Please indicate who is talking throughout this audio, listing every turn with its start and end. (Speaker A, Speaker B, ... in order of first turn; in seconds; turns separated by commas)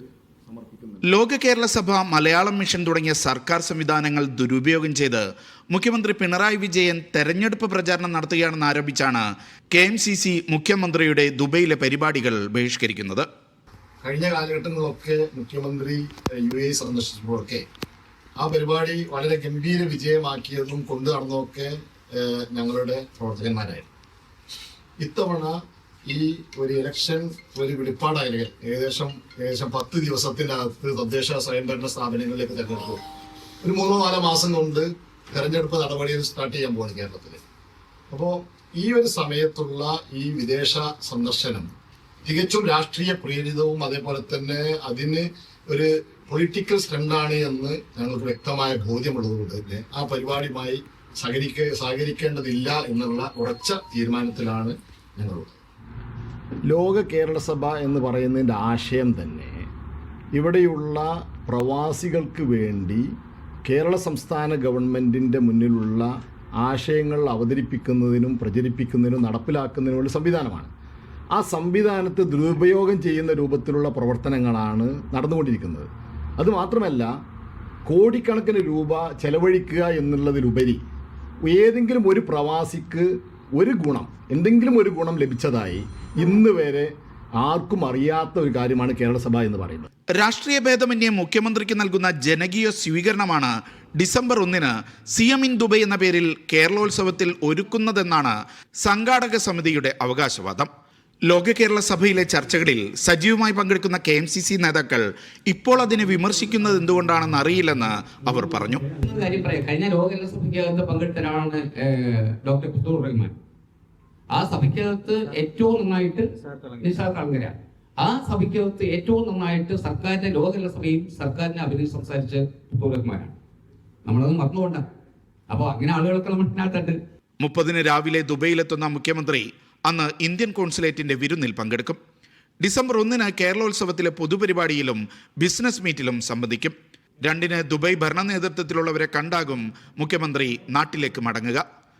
Speaker A: 0.5-1.0, Speaker B: 1.0-13.2, Speaker A: 14.0-17.6, Speaker A: 18.4-23.9, Speaker A: 25.0-33.0, Speaker A: 33.6-37.4, Speaker A: 38.1-41.7, Speaker A: 42.2-55.5, Speaker A: 56.7-59.6, Speaker A: 60.3-63.1, Speaker A: 63.6-66.1, Speaker A: 66.6-70.7, Speaker A: 71.3-77.1, Speaker A: 77.8-80.8, Speaker A: 81.4-89.9, Speaker B: 90.2-100.7, Speaker B: 101.3-108.8, Speaker C: 108.9-113.3, Speaker C: 114.3-123.3, Speaker C: 124.0-124.8, Speaker C: 125.5-127.0, Speaker B: 127.4-132.0, Speaker B: 132.6-141.6